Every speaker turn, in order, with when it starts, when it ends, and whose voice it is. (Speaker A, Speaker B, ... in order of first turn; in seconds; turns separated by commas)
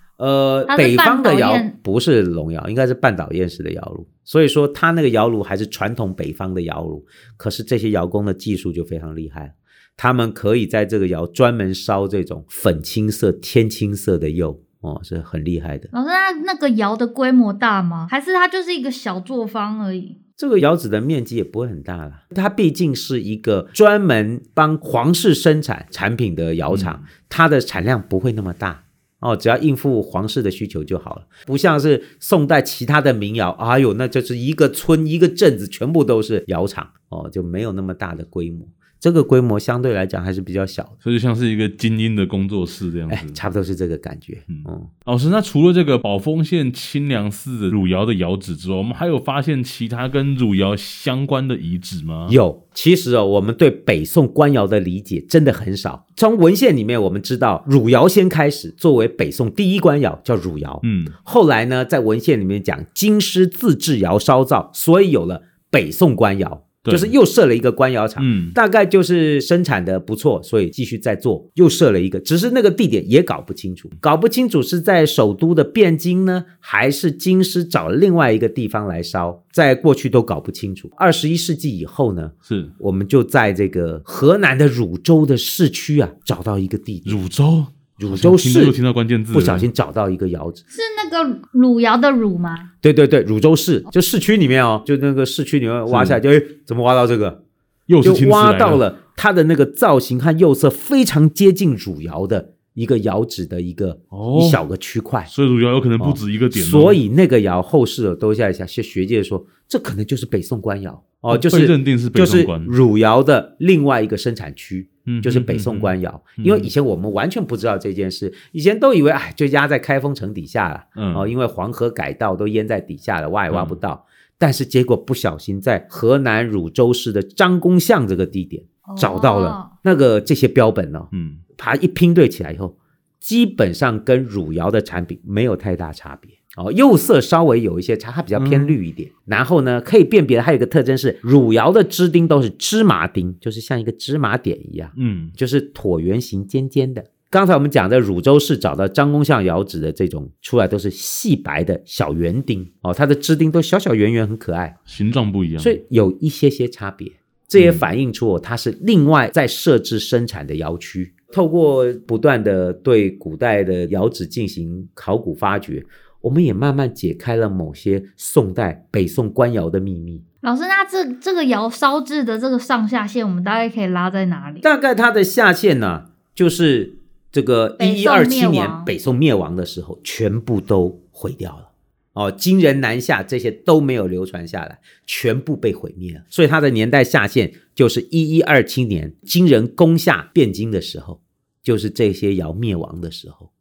Speaker A: 0.2-15.9, Speaker B: 0.7-1.7, Speaker B: 15.9-20.1, Speaker A: 20.4-40.9, Speaker C: 26.7-27.0, Speaker C: 41.0-43.4, Speaker A: 43.1-44.9, Speaker C: 44.5-52.4, Speaker A: 52.3-87.2, Speaker C: 60.8-61.1, Speaker C: 66.8-67.1, Speaker C: 68.2-68.5, Speaker C: 82.5-82.7, Speaker C: 87.0-89.7, Speaker A: 88.0-88.8, Speaker A: 89.3-90.6, Speaker B: 90.7-92.7, Speaker A: 92.8-97.4, Speaker C: 95.9-96.2, Speaker C: 97.9-98.8, Speaker A: 98.0-105.3, Speaker C: 104.1-104.6, Speaker C: 105.3-107.0, Speaker A: 106.0-154.7, Speaker C: 111.3-112.7, Speaker C: 115.0-116.7, Speaker C: 121.0-121.3, Speaker C: 123.5-123.8, Speaker B: 128.8-129.7, Speaker C: 131.1-131.4, Speaker C: 138.3-138.8, Speaker C: 144.9-145.3, Speaker C: 154.9-155.8, Speaker A: 155.6-170.2, Speaker C: 157.6-157.8, Speaker B: 170.4-174.6, Speaker A: 174.6-193.5, Speaker B: 177.8-178.9